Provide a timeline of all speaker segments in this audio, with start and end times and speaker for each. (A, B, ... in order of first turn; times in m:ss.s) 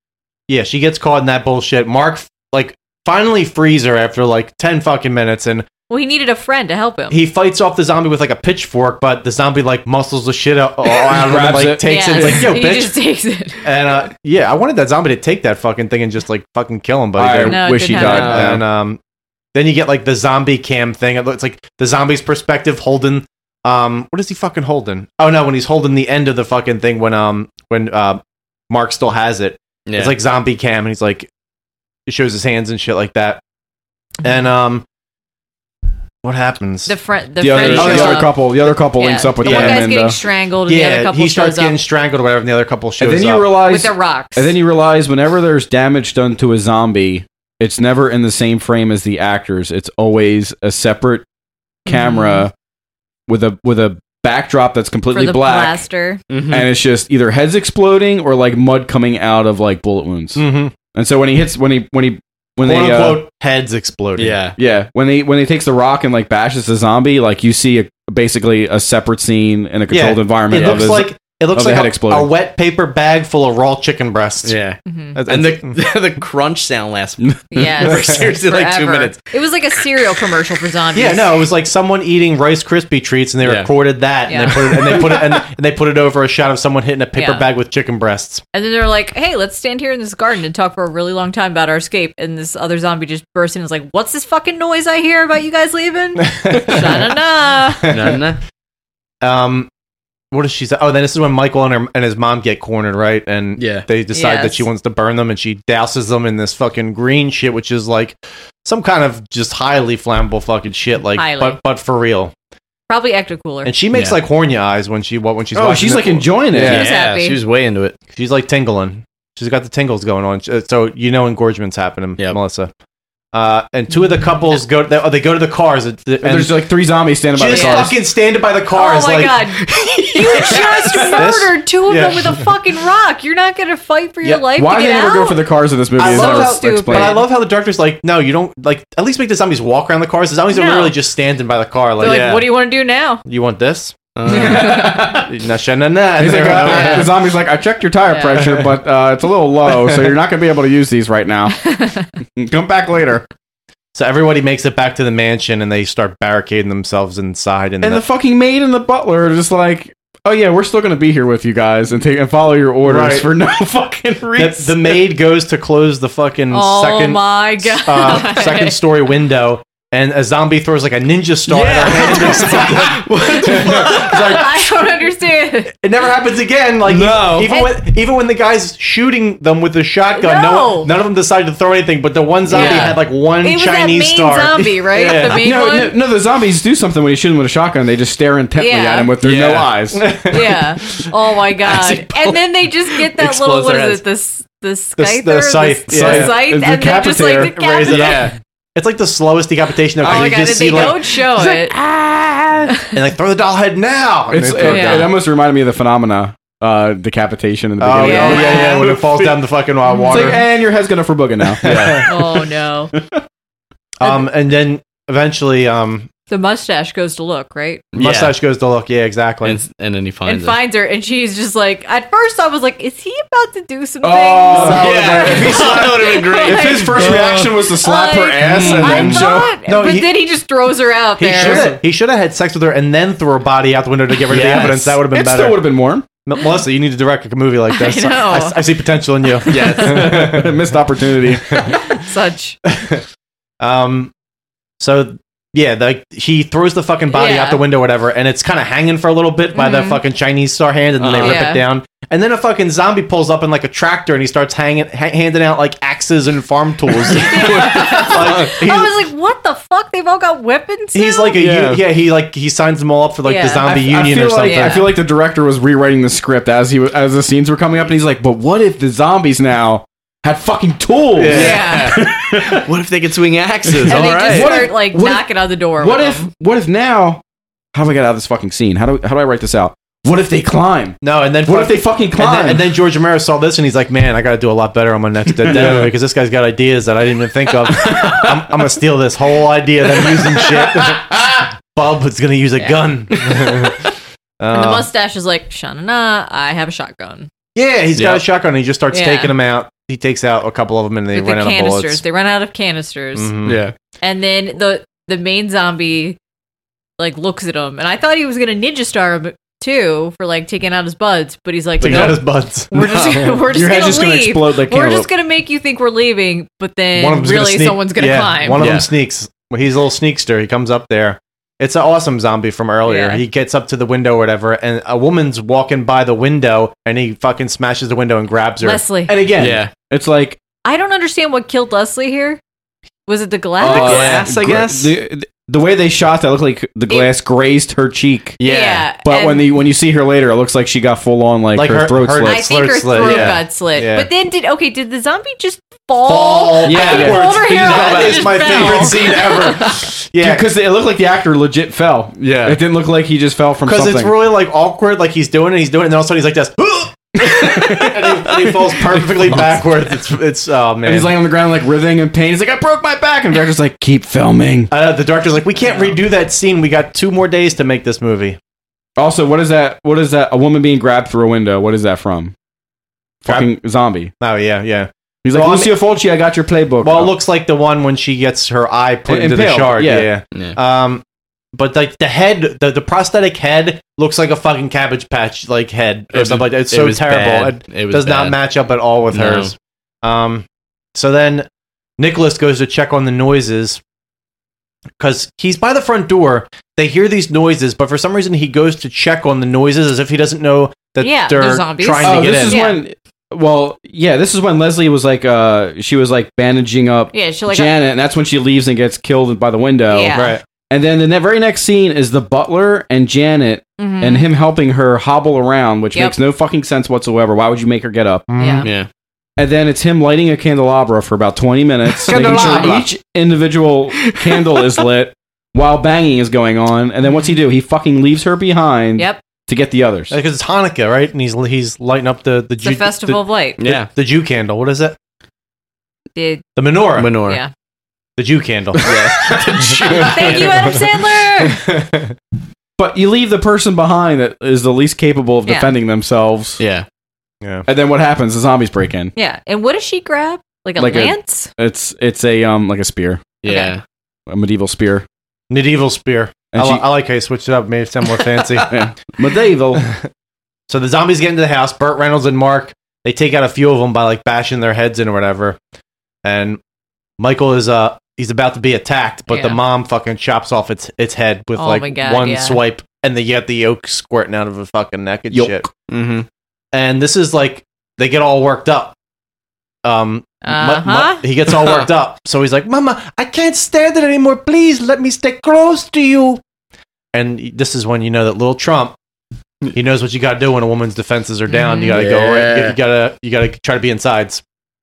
0:00.5-0:05.6 A
0:05.9-0:07.2 B
0:07.1-0:13.0 A
0:11.1-0:12.5 C
0:11.8-0:13.6 B
0:13.6-0:19.0 A
0:17.2-0:18.6 C
0:17.4-0:18.4 B
0:18.0-0:18.6 D
0:19.5-0:31.3 A
0:29.9-0:30.2 D
0:32.1-0:33.4 A
0:34.2-0:34.8 A
0:36.2-0:36.9 A
0:36.8-0:41.8 B
0:37.4-0:40.2 C
0:37.6-0:38.0 D
0:37.6-0:38.2 A
0:39.4-0:39.9 A
0:40.6-0:43.5 A
0:43.0-0:51.2 C
0:43.6-0:44.5 B
0:51.8-0:52.5 C
0:51.9-0:52.5 B
0:53.3-0:55.9 C
0:55.1-0:56.2 B
0:56.3-0:56.7 D
0:56.5-1:03.2 C
1:00.4-1:00.7 A
1:02.6-1:04.4 A
1:04.2-1:04.6 D
1:04.6-1:12.3 C
1:09.9-1:14.6 A
1:10.5-1:11.0 D
1:14.4-1:19.2 D
1:14.8-1:15.2 B
1:15.1-1:15.8 A
1:17.5-1:21.3 B
1:20.9-1:28.4 A
1:23.4-1:23.7 D
1:24.3-1:24.7 B
1:27.2-1:27.4 B
1:28.5-1:37.9 B
1:36.4-1:37.1 A
1:37.8-1:38.2 A
1:37.9-1:38.4 D
1:39.2-1:39.7 A
1:40.3-1:52.3 A
1:43.6-1:43.8 D
1:44.1-1:44.6 B
1:51.2-1:51.6 B
1:52.9-1:53.7 B
1:53.6-1:56.9 A
1:55.5-1:56.8 C
1:56.6-1:57.9 D
1:56.7-1:57.4 B
1:58.1-2:02.7 A
2:03.3-2:06.6 A
2:06.2-2:08.0 C
2:07.3-2:09.5 A
2:07.5-2:07.9 B
2:08.7-2:15.4 B
2:09.6-2:11.2 D
2:11.1-2:12.5 A
2:14.5-2:17.2 C
2:16.0-2:22.4 A
2:16.0-2:17.2 B
2:20.5-2:21.0 B
2:22.0-2:23.2 B
2:22.0-2:22.4 D
2:23.2-2:27.1 A
2:24.2-2:25.0 D
2:24.3-2:25.3 C
2:24.4-2:24.9 B
2:26.2-2:31.6 C
2:28.1-2:28.4 B
2:31.6-2:32.1 B
2:32.4-2:33.3 C
2:33.9-2:38.0 A
2:37.8-2:45.1 C
2:42.8-2:43.3 A
2:44.4-2:54.9 A
2:46.5-2:48.8 B
2:51.5-2:54.2 D
2:53.5-2:55.7 B
2:55.8-3:05.4 A
2:56.8-2:57.5 D
2:57.5-2:57.8 B
3:00.1-3:00.9 B
3:02.5-3:03.0 D
3:02.5-3:06.0 B
3:05.3-3:10.1 C
3:08.5-3:09.1 B
3:09.2-3:09.7 D
3:09.9-3:10.6 A
3:10.3-3:18.2 B
3:11.6-3:14.0 D
3:15.0-3:16.3 A
3:15.9-3:16.3 D
3:15.9-3:17.5 C
3:17.4-3:21.2 A
3:17.8-3:18.3 D
3:20.0-3:20.8 D
3:20.0-3:21.7 B
3:20.3-3:20.7 C
3:21.4-3:22.0 C
3:22.7-3:23.0 B
3:22.9-3:25.1 A
3:24.3-3:29.3 C
3:24.6-3:25.1 B
3:27.8-3:30.4 A
3:28.0-3:28.8 B
3:29.8-3:30.4 B
3:30.0-3:32.2 C
3:31.6-3:32.0 A
3:31.6-3:32.0 D
3:32.0-3:32.9 B
3:32.9-3:33.2 C
3:34.0-3:36.1 A
3:36.3-3:37.8 B
3:37.9-3:38.4 D
3:38.0-3:39.6 A
3:39.4-3:40.6 D
3:40.2-3:44.8 B
3:44.0-3:49.5 C
3:44.5-3:46.0 A
3:44.7-3:47.5 D
3:45.5-3:47.0 B
3:47.8-3:51.7 B
3:48.5-3:49.1 D
3:48.5-3:50.2 A
3:51.2-4:00.5 A
3:51.4-3:51.8 C
3:54.3-3:55.0 D
3:55.0-3:56.0 C
3:57.7-3:58.6 B
3:59.3-3:59.8 B
3:59.5-4:00.2 D
3:59.8-4:01.7 C
4:01.3-4:01.8 A
4:01.7-4:02.6 B
4:02.7-4:03.0 A
4:03.6-4:04.1 A
4:04.8-4:18.9 A
4:07.1-4:07.6 B
4:09.5-4:10.0 B
4:11.0-4:11.4 D
4:11.2-4:11.6 B
4:17.2-4:18.5 D
4:17.3-4:21.4 B
4:20.9-4:24.8 A
4:21.4-4:21.8 D
4:23.2-4:24.9 B
4:23.7-4:32.6 C
4:31.2-4:31.6 A
4:31.2-4:34.6 D
4:31.3-4:32.0 B
4:33.7-4:37.2 C
4:33.9-4:36.3 B
4:37.7-4:42.7 C
4:41.0-4:54.9 A
4:45.4-4:45.9 D
4:45.5-4:45.8 C
4:54.5-4:57.3 B
4:57.5-5:02.0 A
4:57.9-4:58.2 D
4:58.9-4:59.3 B
5:01.1-5:03.3 B
5:03.1-5:03.6 A
5:03.4-5:03.7 D
5:04.0-5:06.2 B
5:07.0-5:12.2 B
5:11.8-5:13.3 A
5:11.8-5:12.1 C
5:12.7-5:18.6 B
5:13.4-5:15.1 C
5:16.9-5:28.8 A
5:18.6-5:18.9 D
5:22.8-5:23.2 B
5:28.6-5:29.1 B
5:29.1-5:30.4 C
5:29.4-5:29.7 D
5:30.6-5:32.4 B
5:33.1-5:34.2 B
5:33.6-5:38.4 C
5:33.6-5:34.9 D
5:38.4-5:38.8 D
5:38.4-5:39.5 B
5:39.0-5:42.4 C
5:41.5-5:44.1 A
5:42.2-5:49.8 B
5:43.0-5:43.4 D
5:46.0-5:50.5 A
5:46.6-5:49.1 D
5:46.8-5:47.4 C
5:50.2-5:54.1 C
5:52.2-5:52.6 D
5:53.6-6:01.1 A
5:57.2-5:58.2 C
5:59.2-5:59.6 C
6:00.8-6:04.7 C
6:04.7-6:08.4 A
6:09.0-6:12.3 C
6:13.2-6:14.1 C
6:14.2-6:15.7 A
6:15.2-6:17.1 C
6:16.8-6:21.0 A
6:19.1-6:20.1 C
6:21.5-6:31.5 A
6:26.1-6:28.4 D
6:29.1-6:29.5 D
6:32.0-6:33.8 A
6:35.0-6:42.6 A
6:41.0-6:42.8 B
6:42.0-6:58.2 C
6:47.1-6:47.8 B
6:49.9-6:50.4 B
6:50.1-6:50.4 A
6:53.8-6:54.3 B
6:58.3-6:58.7 A
6:58.4-6:58.7 B
6:59.4-7:10.2 C
7:02.0-7:02.8 D
7:02.1-7:02.8 A
7:04.1-7:04.8 D
7:07.0-7:07.4 B
7:10.1-7:15.0 A
7:12.6-7:13.6 B
7:13.6-7:13.9 D
7:16.2-7:16.4 B
7:16.6-7:17.2 A
7:17.0-7:17.4 D
7:17.2-7:17.5 B
7:18.2-7:19.3 A
7:18.8-7:20.9 D
7:19.9-7:21.6 B
7:20.0-7:20.7 A
7:21.6-7:22.1 A
7:22.8-7:26.6 C
7:25.5-7:25.7 B
7:26.6-7:26.8 D
7:27.6-7:29.1 C
7:29.2-7:31.5 B
7:30.8-7:33.3 C
7:33.4-7:33.8 D
7:33.4-7:33.7 B
7:34.3-7:35.0 C
7:35.5-7:38.7 A
7:36.5-7:36.8 C
7:38.7-7:39.9 C
7:40.7-7:45.6 A
7:46.2-7:46.6 A
7:47.2-7:55.7 A
7:49.3-7:49.6 B
7:51.6-7:52.6 B
7:55.3-7:55.7 C
7:55.9-7:56.2 D
7:56.7-7:59.0 A
7:59.8-8:06.4 A
8:00.4-8:01.2 B
8:01.6-8:01.9 D
8:07.1-8:09.0 A
8:09.7-8:14.4 A
8:11.5-8:12.0 B
8:11.9-8:12.8 D